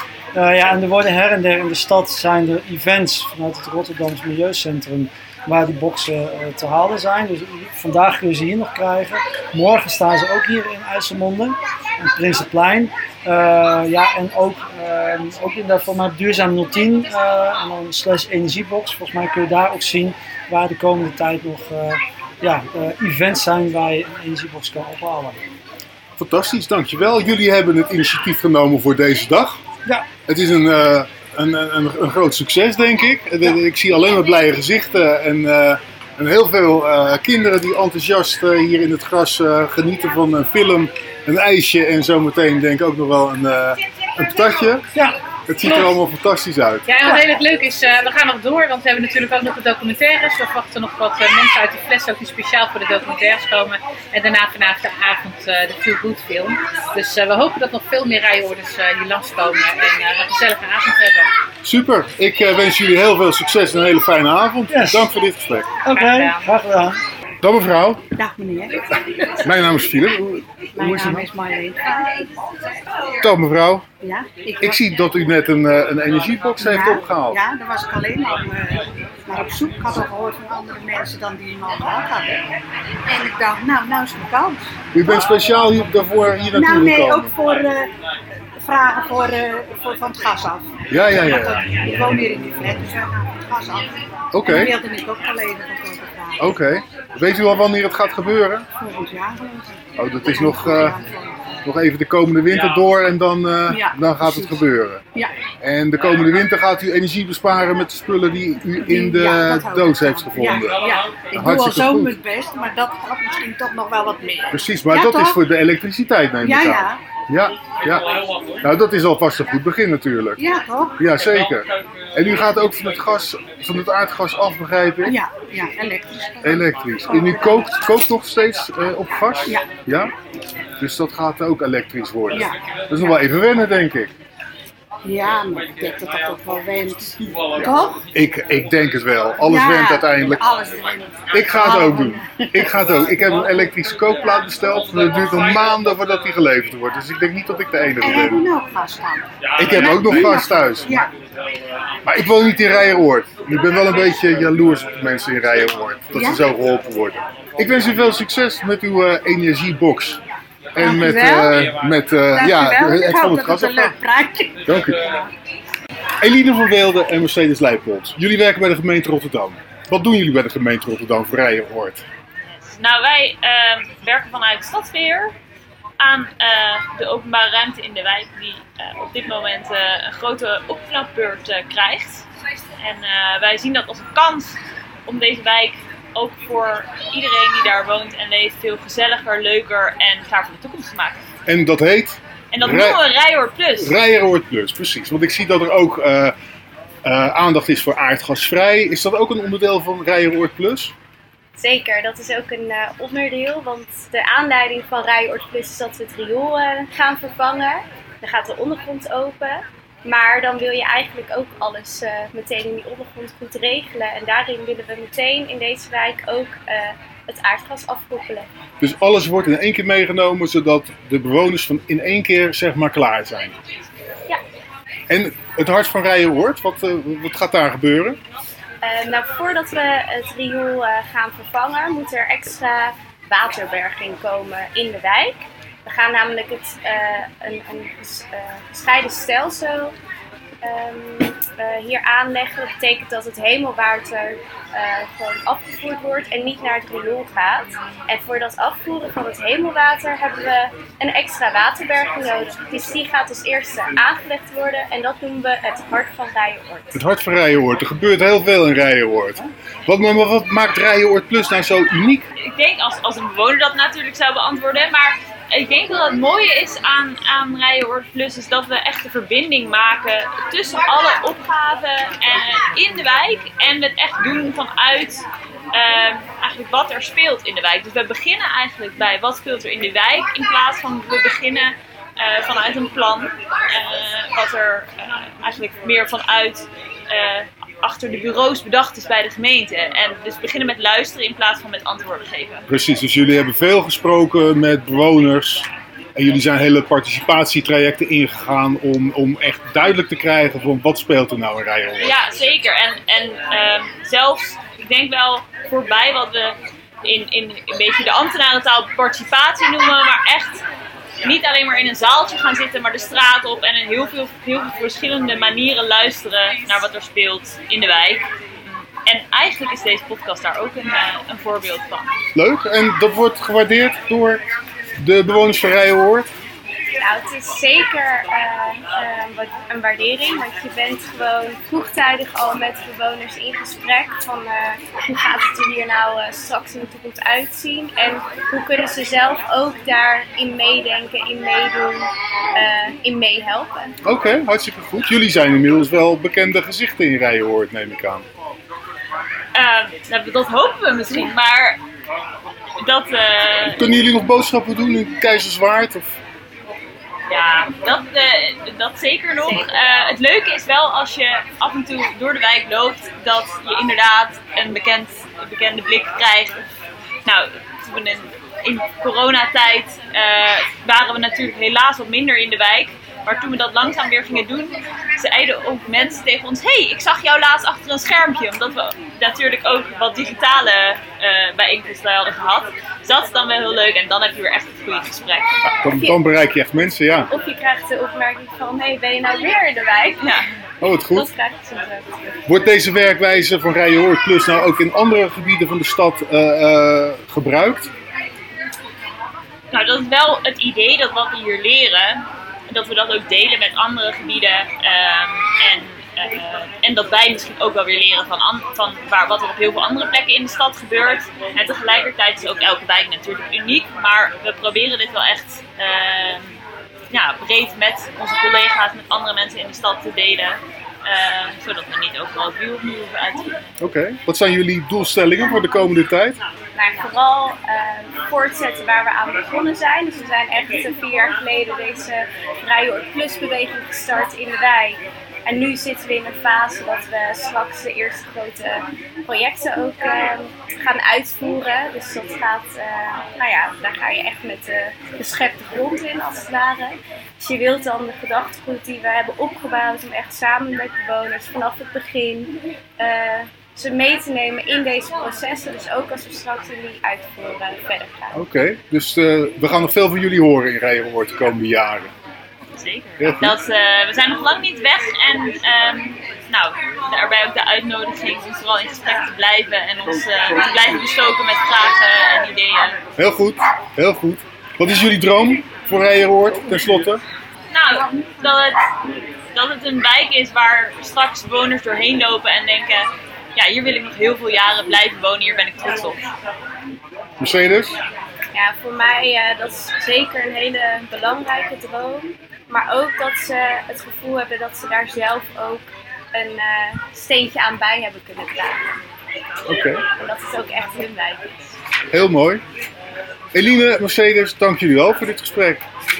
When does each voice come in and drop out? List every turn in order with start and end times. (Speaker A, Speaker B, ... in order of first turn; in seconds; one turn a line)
Speaker A: 0.3-25.4
Speaker B: 26.2-29.6
Speaker B: 30.3-44.9
Speaker B: 45.5-46.9
Speaker C: 46.9-61.3
Speaker B: 61.6-65.7
Speaker A: 64.7-65.1
Speaker A: 65.8-67.0
Speaker C: 65.9-66.5
Speaker B: 67.4-68.0
Speaker D: 68.2-69.4
Speaker B: 69.4-71.2
Speaker D: 70.7-72.3
Speaker B: 73.2-73.8
Speaker D: 74.0-74.8
Speaker B: 74.6-77.4
Speaker D: 76.6-82.4
Speaker D: 83.1-84.8
Speaker B: 84.9-87.3
Speaker D: 86.5-87.9
Speaker D: 88.6-93.9
Speaker B: 90.9-91.6
Speaker B: 94.3-94.7
Speaker D: 94.4-96.5
Speaker B: 96.4-98.6
Speaker D: 98.8-101.4
Speaker B: 100.0-101.0
Speaker B: 101.6-105.0
Speaker D: 103.7-104.6
Speaker B: 105.6-110.8
Speaker D: 108.8-115.4
Speaker B: 111.3-112.1
Speaker B: 114.5-118.1
Speaker D: 116.4-117.0
Speaker B: 118.6-120.4
Speaker D: 120.4-121.0
Speaker B: 121.0-125.2
Speaker D: 125.0-127.8
Speaker B: 126.4-130.1
Speaker B: 130.8-134.1
Speaker D: 132.3-133.2
Speaker D: 135.0-138.0
Speaker B: 138.1-140.4
Speaker D: 139.4-143.3
Speaker B: 141.3-148.4
Speaker D: 148.0-151.1
Speaker B: 149.6-151.1
Speaker B: 152.0-160.2
Speaker D: 156.1-156.4
Speaker B: 160.7-163.9
Speaker D: 160.8-161.7
Speaker D: 162.3-165.2
Speaker B: 164.7-165.0
Speaker B: 166.2-172.0
Speaker E: 172.7-175.3
Speaker E: 176.0-182.2
Speaker E: 182.8-191.2
Speaker B: 191.4-193.0
Speaker E: 192.5-193.9
Speaker B: 193.8-196.3
Speaker B: 197.0-200.9
Speaker F: 201.6-218.5
Speaker B: 218.8-223.5
Speaker B: 225.1-228.2
Speaker F: 228.8-239.9
Speaker F: 240.6-257.0
Speaker B: 256.9-262.2
Speaker E: 262.5-292.6
Speaker B: 292.7-302.2
Speaker E: 302.0-310.6
Speaker E: 311.2-322.1
Speaker B: 322.3-324.4
Speaker B: 325.0-326.3
Speaker F: 327.0-343.9
Speaker B: 344.0-348.2
Speaker E: 349.5-351.8
Speaker E: 352.8-353.8
Speaker B: 353.7-356.2
Speaker E: 357.3-366.6
Speaker F: 359.4-360.2
Speaker E: 367.2-385.7
Speaker B: 385.6-387.3
Speaker F: 385.9-386.2
Speaker F: 387.3-390.4
Speaker E: 390.2-390.4
Speaker B: 390.8-391.3
Speaker F: 391.1-392.4
Speaker B: 392.4-397.9
Speaker E: 399.7-416.6
Speaker E: 417.1-423.7
Speaker B: 423.8-426.4
Speaker F: 426.7-458.4
Speaker B: 458.3-462.1
Speaker E: 462.7-473.0
Speaker B: 463.2-463.5
Speaker B: 473.2-477.2
Speaker E: 477.7-478.8
Speaker E: 479.5-486.2
Speaker B: 487.4-487.9
Speaker F: 488.5-498.9
Speaker B: 499.7-500.1
Speaker F: 500.2-501.7
Speaker B: 502.1-502.6
Speaker B: 503.5-505.8